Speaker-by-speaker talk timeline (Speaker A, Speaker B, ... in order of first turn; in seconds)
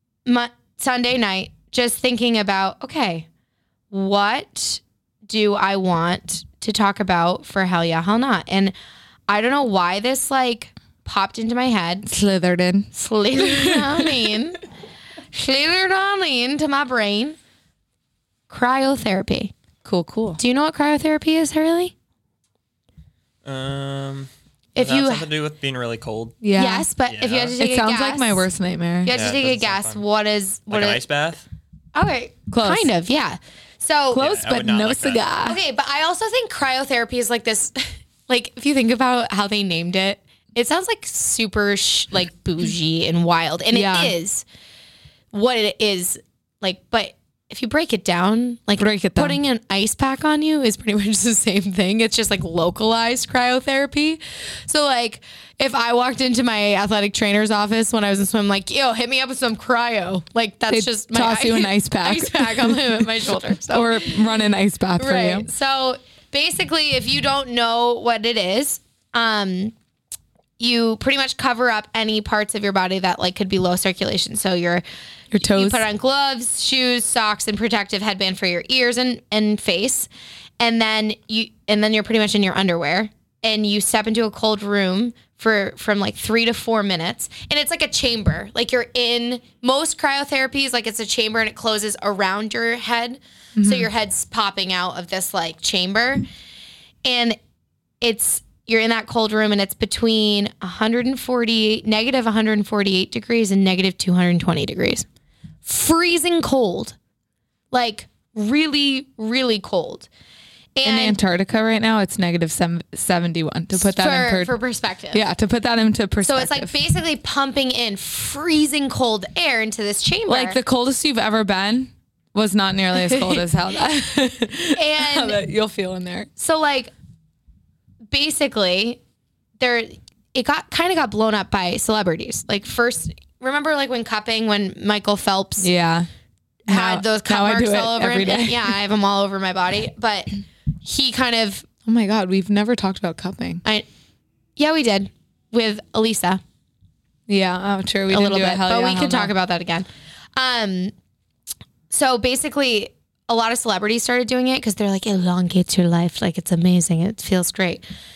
Speaker A: 0.3-3.3, 3.9-8.7, 9.3-12.1, 12.9-14.6, 15.3-17.4, 18.5-19.5, 20.4-21.9, 24.7-25.3, 26.6-28.4, 29.0-31.0, 31.9-34.3, 35.4-44.4, 45.3-64.2, 65.0-69.7, 70.6-74.8, 75.4-96.2, 97.0-97.4, 98.0-105.1, 105.6-107.0, 107.7-110.1, 110.8-111.2, 113.8-115.2, 116.2-120.6, 123.1-123.4, 124.7-125.4, 126.4-126.9, 128.1-129.0, 129.6-135.7, 136.7-140.3, 140.8-141.7, 144.6-146.4, 148.1-150.9, 151.9-157.8
Speaker B: 12.1-14.2, 19.8-20.4, 26.4-26.9, 27.6-29.1, 32.5-32.9, 34.1-35.6, 43.7-44.1, 48.8-49.4, 60.7-65.5, 75.3-75.8, 93.6-93.9, 110.8-114.5, 115.1-116.7, 120.3-126.3, 135.6-136.1, 136.7-138.8, 141.8-143.6, 147.3-149.3
Speaker C: 23.4-26.4, 27.1-27.6, 29.1-30.0, 30.7-31.4, 34.2-35.3